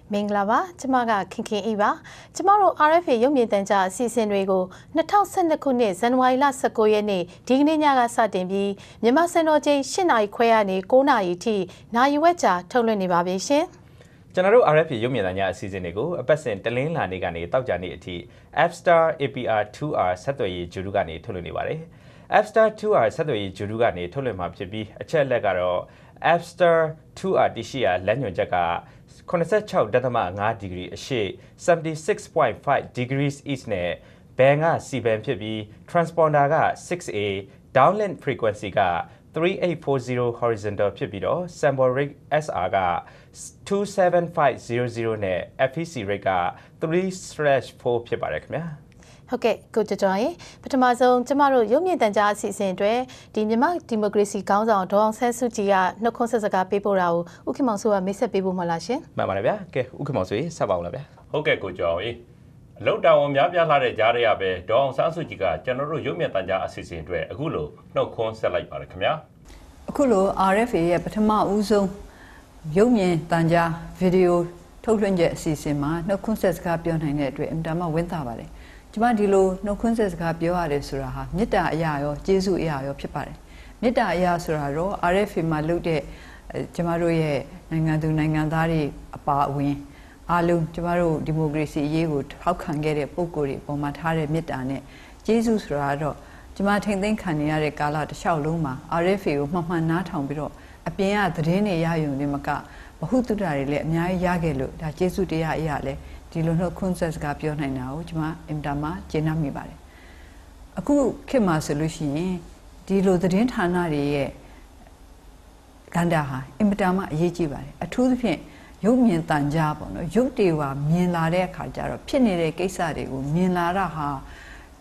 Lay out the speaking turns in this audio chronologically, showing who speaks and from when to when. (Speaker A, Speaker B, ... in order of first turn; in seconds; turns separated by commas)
Speaker A: 0.1-13.7, Speaker B: 14.3-48.8, Speaker A: 49.3-59.0, Speaker B: 59.2-61.1, Speaker C: 61.3-62.2, Speaker C: 62.8-69.2, Speaker D: 69.9-71.9, Speaker D: 72.7-109.8, Speaker D: 110.8-114.3, Speaker D: 115.9-124.2